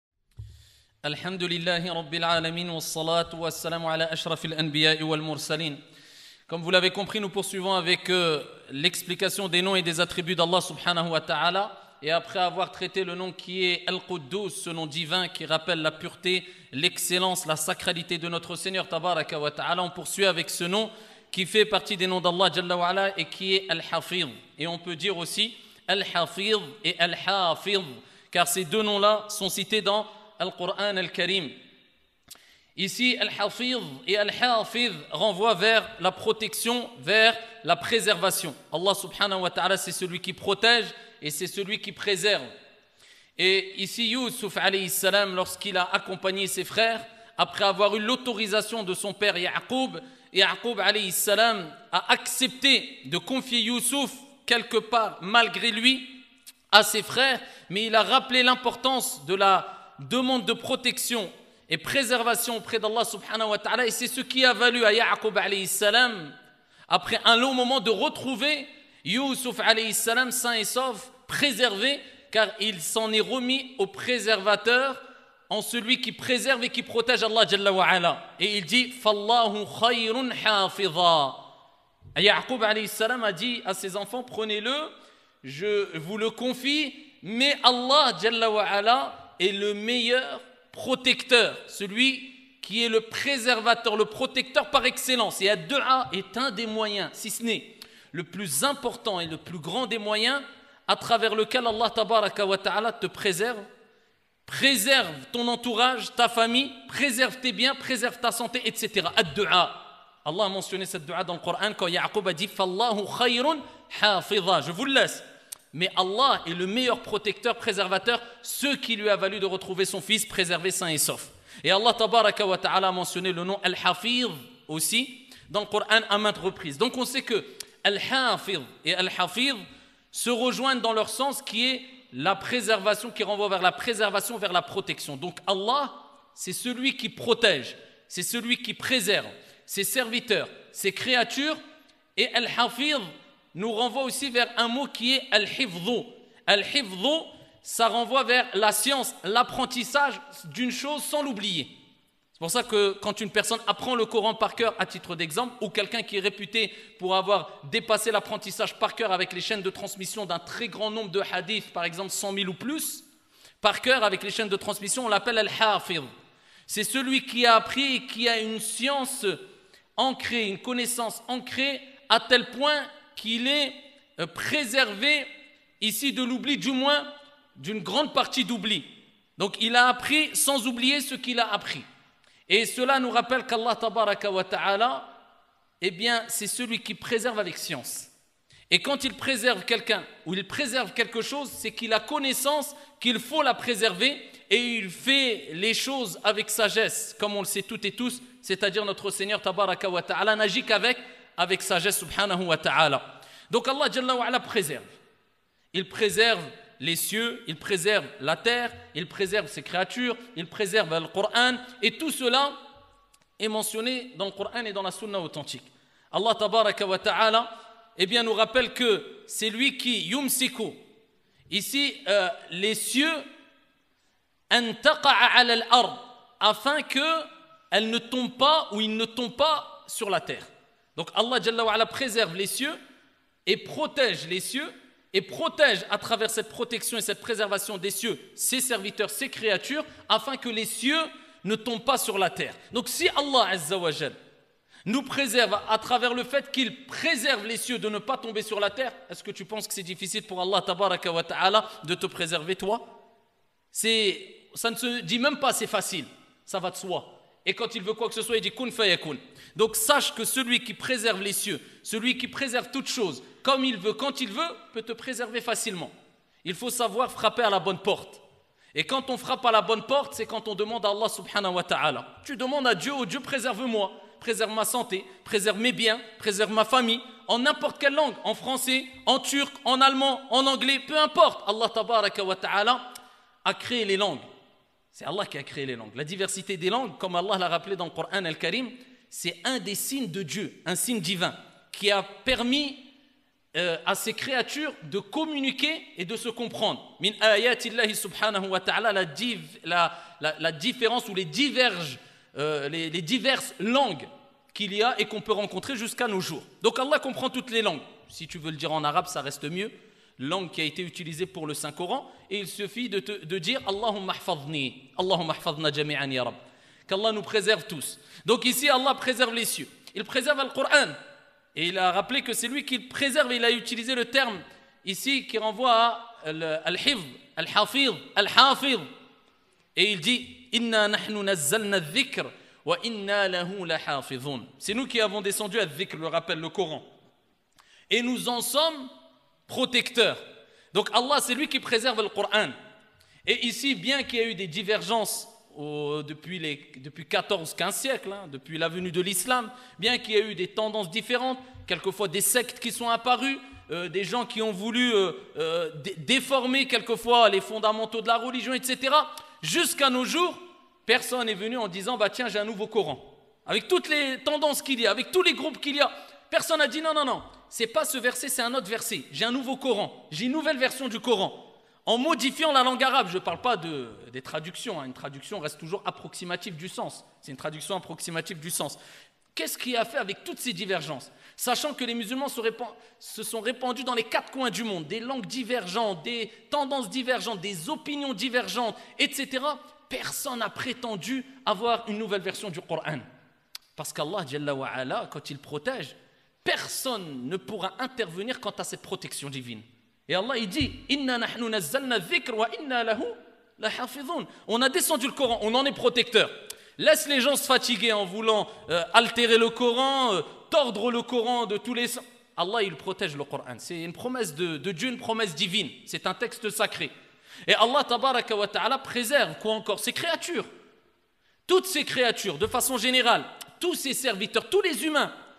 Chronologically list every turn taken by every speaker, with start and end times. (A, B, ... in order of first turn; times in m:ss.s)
0:01.0-0:05.8 A
0:06.5-0:31.6 A
0:32.8-0:42.5 A
0:43.4-0:56.1 A
0:56.7-1:06.3 A
1:06.9-1:21.4 A
1:22.2-1:24.9 A
1:25.4-1:43.6 A
1:44.5-2:09.6 A
2:10.1-2:21.6 A
2:22.2-2:31.7 A
2:32.4-2:43.0 A
2:43.6-2:46.1 A
2:46.7-2:49.4 A
2:50.0-2:55.3 A
2:55.8-3:01.9 A
3:02.5-3:05.1 A
3:05.8-3:08.1 A
3:08.7-3:24.9 A
3:25.7-3:32.5 A
3:33.4-3:40.8 A
3:41.5-3:43.2 A
3:44.5-3:52.8 A
3:53.5-4:04.2 A
4:04.9-4:12.8 A
4:13.7-4:25.9 A
4:26.4-4:28.2 A
4:28.7-4:42.8 A
4:43.5-4:44.2 A
4:44.9-4:52.8 A
4:53.6-5:21.0 A
5:21.6-5:28.9 A
5:29.8-5:36.9 A
5:37.9-5:38.9 A
5:39.5-5:40.2 A
5:40.7-5:42.6 A
5:43.2-6:18.8 A
6:19.4-6:33.0 A
6:33.8-6:56.9 A
6:57.5-7:00.5 A
7:01.5-7:05.1 A